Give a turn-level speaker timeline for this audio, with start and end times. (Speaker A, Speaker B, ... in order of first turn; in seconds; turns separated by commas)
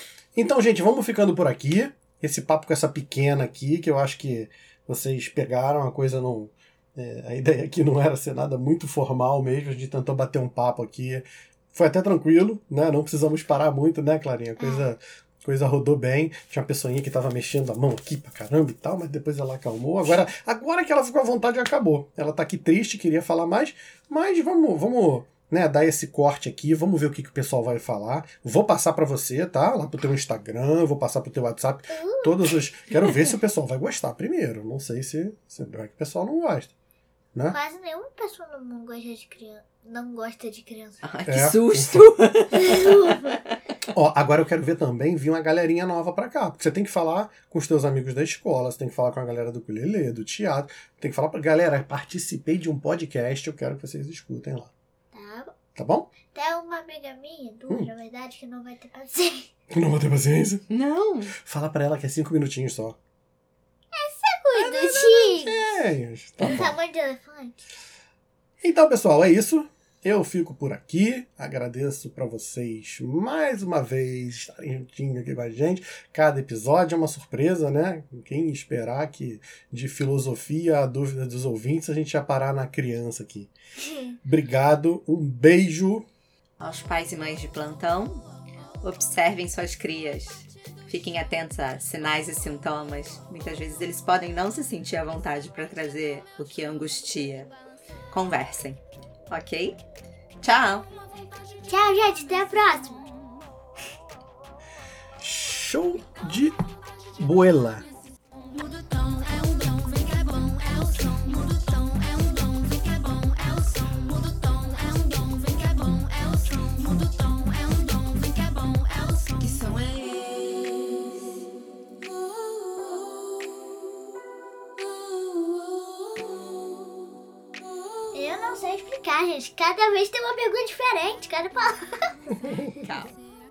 Speaker A: 0.3-36.7, Speaker B: 14.6-14.9, Speaker B: 31.9-32.5, Speaker B: 37.5-41.0, Speaker C: 41.0-43.4, Speaker A: 41.3-42.1, Speaker B: 42.6-43.4, Speaker A: 43.9-54.7, Speaker B: 55.1-55.5, Speaker A: 55.8-56.1, Speaker B: 56.3-59.5, Speaker A: 59.7-60.7, Speaker C: 60.7-61.3, Speaker A: 61.3-63.0, Speaker B: 63.9-65.8, Speaker A: 64.5-66.8, Speaker B: 66.4-67.6, Speaker A: 68.6-83.5, Speaker B: 83.8-84.2, Speaker A: 84.2-86.1, Speaker C: 86.6-88.2, Speaker C: 88.8-97.5, Speaker C: 98.1-99.8, Speaker C: 100.4-100.9, Speaker D: 101.1-103.0, Speaker B: 101.7-103.0, Speaker A: 105.2-106.5, Speaker A: 107.2-107.8, Speaker D: 108.5-120.2, Speaker C: 119.4-121.0, Speaker B: 128.1-132.2, Speaker A: 132.3-132.9, Speaker C: 132.8-133.2